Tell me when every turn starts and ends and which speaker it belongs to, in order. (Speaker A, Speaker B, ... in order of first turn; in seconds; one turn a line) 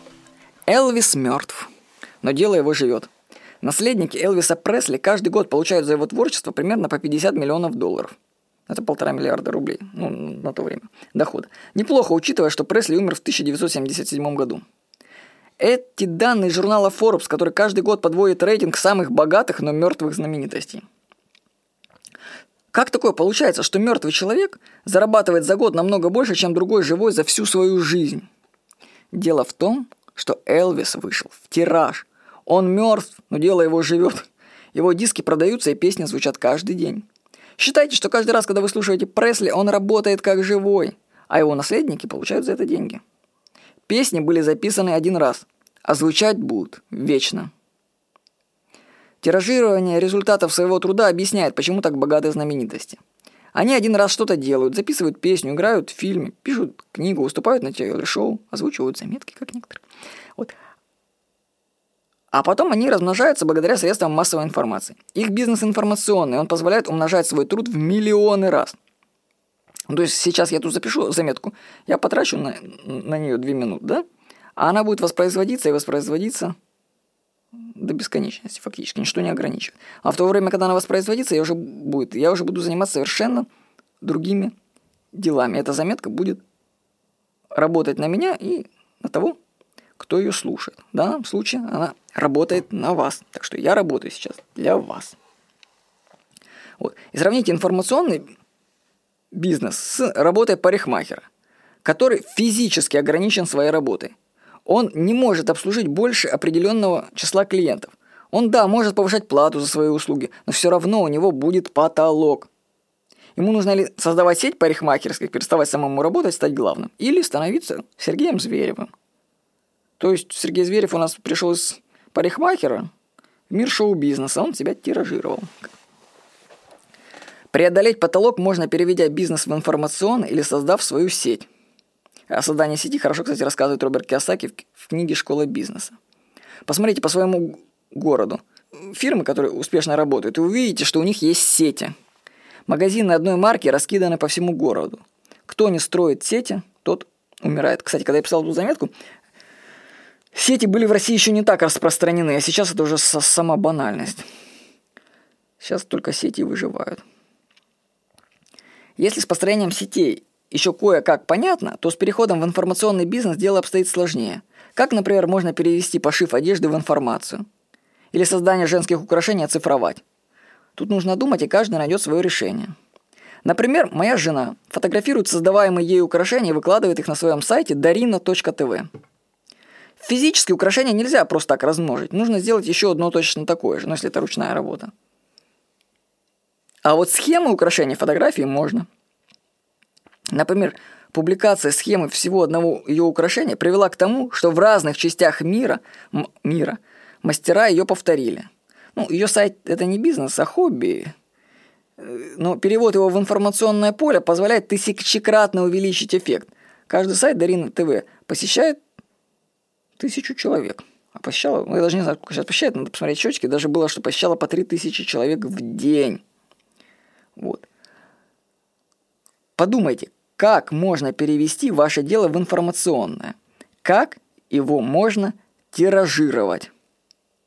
Speaker A: 0.7-1.7
Speaker A: 2.2-3.1
Speaker A: 3.6-8.1
Speaker A: 8.7-14.6
Speaker A: 15.6-20.8
Speaker A: 22.7-28.3
Speaker A: 29.1-37.0
Speaker A: 37.6-43.0
Speaker A: 43.9-47.5
Speaker A: 49.2-53.0
Speaker A: 53.5-59.8
Speaker A: 62.3-68.8
Speaker A: 69.9-74.0
Speaker A: 74.6-76.5
Speaker A: 77.7-83.5
Speaker A: 84.0-84.5
Speaker A: 85.1-86.4
Speaker A: 87.5-89.4
Speaker A: 90.0-95.2
Speaker A: 96.8-98.3
Speaker A: 99.3-101.3
Speaker A: 101.8-104.1
Speaker A: 104.7-112.5
Speaker A: 113.4-118.9
Speaker A: 120.0-122.9
Speaker A: 123.5-125.7
Speaker A: 127.5-131.5
Speaker A: 132.3-135.9
Speaker A: 136.7-141.9
Speaker A: 142.7-148.9
Speaker A: 150.3-154.3
Speaker A: 155.6-157.0
Speaker A: 159.0-167.4
Speaker A: 168.1-170.0
Speaker A: 170.8-172.7
Speaker A: 173.4-178.9
Speaker A: 180.0-184.9
Speaker A: 186.8-188.9
Speaker A: 190.3-201.1
Speaker A: 202.0-208.8
Speaker A: 210.0-216.2
Speaker A: 217.3-217.7
Speaker A: 219.6-226.7